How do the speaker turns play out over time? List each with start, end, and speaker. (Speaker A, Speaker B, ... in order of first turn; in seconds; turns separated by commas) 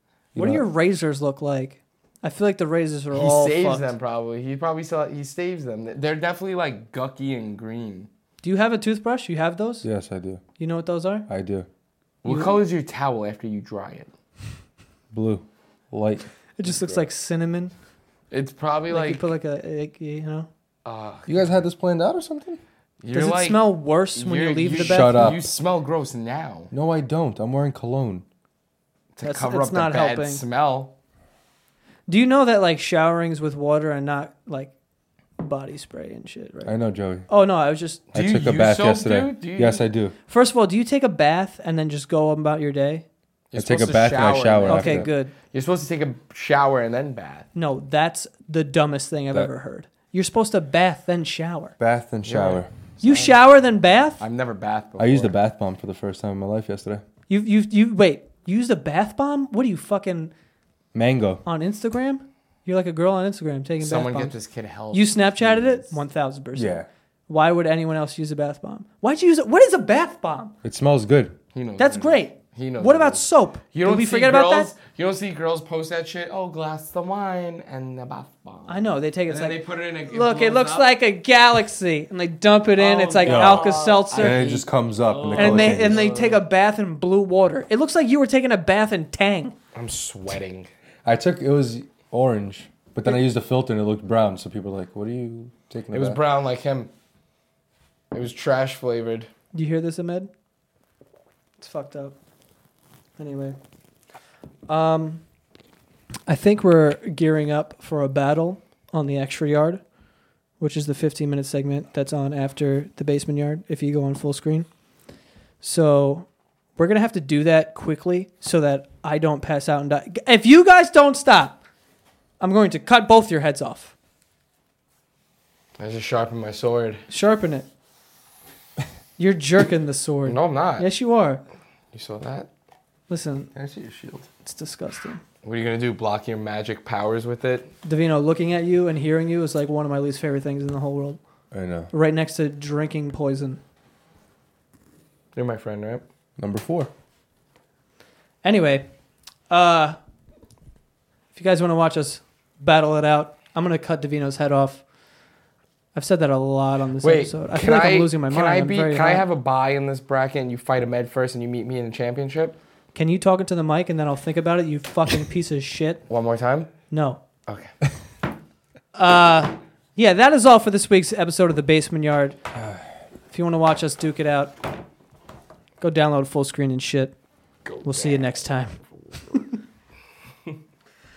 Speaker A: 0.3-0.7, Speaker B: 0.4-3.9, Speaker C: 3.1-8.1, Speaker B: 8.4-9.9, Speaker A: 9.8-10.4, Speaker B: 10.6-11.3, Speaker A: 11.3-11.7, Speaker C: 12.2-14.1, Speaker B: 12.3-12.6, Speaker A: 15.1-16.3, Speaker B: 16.6-17.7, Speaker C: 16.6-17.1, Speaker C: 18.3-19.3, Speaker B: 18.9-20.5, Speaker C: 20.9-21.5, Speaker A: 21.3-22.6, Speaker C: 23.0-26.7, Speaker B: 23.1-25.4, Speaker A: 24.7-25.4, Speaker A: 26.7-28.2, Speaker C: 29.2-30.9, Speaker B: 29.2-30.4, Speaker B: 32.1-34.7, Speaker B: 35.4-36.8, Speaker A: 36.6-37.3, Speaker B: 37.3-38.0, Speaker C: 38.1-39.9, Speaker A: 38.1-40.1, Speaker B: 40.3-43.0, Speaker C: 43.5-47.5, Speaker A: 43.5-45.1, Speaker B: 44.7-45.3, Speaker B: 47.5-51.8, Speaker A: 51.8-52.7, Speaker C: 52.2-53.4, Speaker B: 53.0-54.2, Speaker C: 54.2-55.3, Speaker A: 55.0-57.0, Speaker B: 57.3-60.3, Speaker A: 60.9-61.4, Speaker B: 61.5-64.3, Speaker C: 63.8-66.0, Speaker B: 64.9-70.5, Speaker A: 66.5-66.9, Speaker A: 70.6-71.4, Speaker C: 71.5-73.2, Speaker B: 71.8-74.7, Speaker C: 73.7-80.9, Speaker B: 78.7-84.4, Speaker C: 82.8-86.4, Speaker A: 83.2-86.0, Speaker B: 85.4-89.6, Speaker C: 89.8-90.7, Speaker A: 91.0-96.2, Speaker C: 95.9-96.9, Speaker C: 98.1-99.3, Speaker B: 99.5-100.3, Speaker B: 101.6-102.2, Speaker B: 103.2-103.6, Speaker B: 104.7-105.2, Speaker B: 106.3-109.8, Speaker B: 110.6-114.7, Speaker B: 115.6-121.6, Speaker B: 122.4-123.9, Speaker C: 125.8-127.0, Speaker B: 127.1-127.7, Speaker B: 129.2-131.4, Speaker C: 130.3-130.9, Speaker C: 131.9-132.5, Speaker B: 133.1-133.5, Speaker A: 133.5-134.3, Speaker B: 134.4-135.2, Speaker C: 135.4-137.7, Speaker B: 137.8-141.2, Speaker A: 141.5-141.9, Speaker B: 141.9-143.6, Speaker C: 145.3-146.0, Speaker A: 146.4-146.9, Speaker B: 148.4-148.9, Speaker B: 149.5-150.0, Speaker B: 151.3-154.8, Speaker B: 155.9-159.3, Speaker C: 157.0-162.6, Speaker B: 162.9-166.0, Speaker C: 166.1-166.7, Speaker B: 166.9-167.2, Speaker C: 167.5-167.7, Speaker B: 168.9-172.4, Speaker B: 173.3-174.6, Speaker B: 175.8-177.2, Speaker C: 177.7-178.3, Speaker B: 177.8-178.8